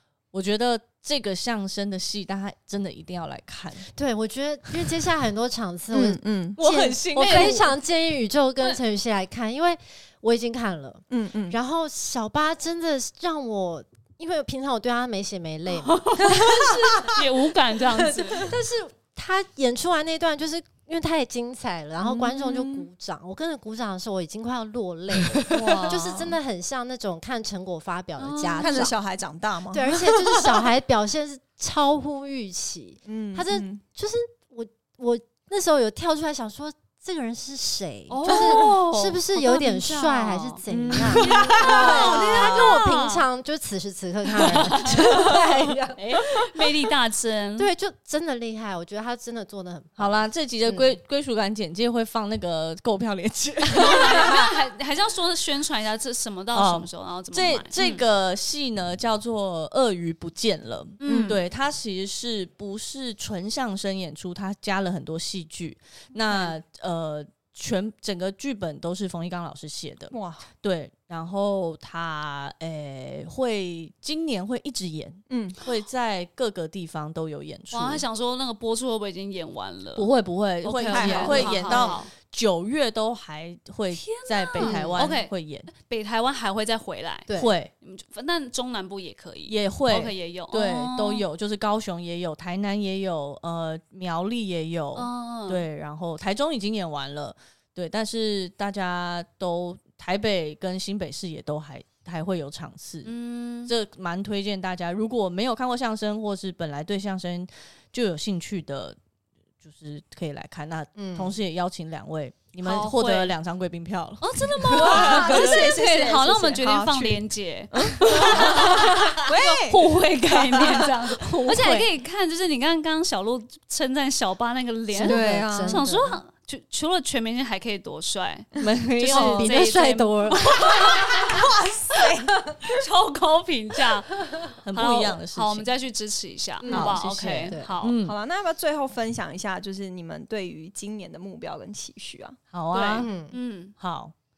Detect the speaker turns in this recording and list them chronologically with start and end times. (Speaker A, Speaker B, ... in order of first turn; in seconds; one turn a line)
Speaker A: 0.3-3.9
Speaker B: 4.0-17.2
Speaker C: 5.9-6.6
Speaker A: 6.6-7.8
Speaker C: 11.1-11.6
Speaker D: 15.8-18.5
Speaker C: 16.4-17.1
Speaker C: 18.1-18.4
Speaker B: 18.3-28.9
Speaker C: 22.0-22.9
Speaker C: 25.4-26.4
Speaker D: 25.5-26.1
Speaker D: 28.2-28.9
Speaker C: 28.6-30.7
Speaker B: 29.7-46.2
Speaker C: 33.1-33.8
Speaker D: 38.1-40.6
Speaker C: 38.2-38.8
Speaker C: 40.7-42.1
Speaker D: 41.2-43.2
Speaker A: 41.7-42.2
Speaker D: 44.4-45.3
Speaker C: 45.1-45.6
Speaker D: 46.0-47.7
Speaker B: 47.6-50.9
Speaker A: 50.0-54.5
Speaker D: 53.8-58.0
Speaker A: 56.5-78.0
Speaker D: 61.0-61.4
Speaker C: 61.0-61.4
Speaker C: 70.1-70.5
Speaker C: 75.3-75.6
Speaker D: 77.7-80.1
Speaker A: 80.0-85.7
Speaker D: 80.6-82.1
Speaker C: 80.9-81.7
Speaker B: 81.3-82.0
Speaker D: 83.9-87.3
Speaker B: 84.6-85.0
Speaker B: 87.3-87.5
Speaker A: 87.3-87.7
Speaker D: 87.8-91.2
Speaker A: 89.5-103.1
Speaker D: 95.0-95.6
Speaker D: 103.0-103.7
Speaker A: 103.7-109.0
Speaker A: 109.6-115.7
Speaker B: 111.0-111.4
Speaker D: 112.6-113.3
Speaker D: 114.2-131.5
Speaker C: 114.7-117.2
Speaker C: 117.8-120.0
Speaker A: 118.1-119.1
Speaker A: 120.6-121.9
Speaker B: 124.9-126.2
Speaker C: 125.1-125.8
Speaker A: 128.6-129.7
Speaker B: 129.1-131.0
Speaker C: 131.0-132.8
Speaker D: 132.6-134.1
Speaker A: 134.6-135.7
Speaker D: 134.7-138.0
Speaker C: 136.6-136.9
Speaker B: 136.7-136.9
Speaker A: 136.7-138.2
Speaker B: 137.5-137.7
Speaker C: 138.0-142.4
Speaker A: 142.5-143.1
Speaker D: 142.7-143.7
Speaker B: 143.0-143.3
Speaker A: 143.8-144.1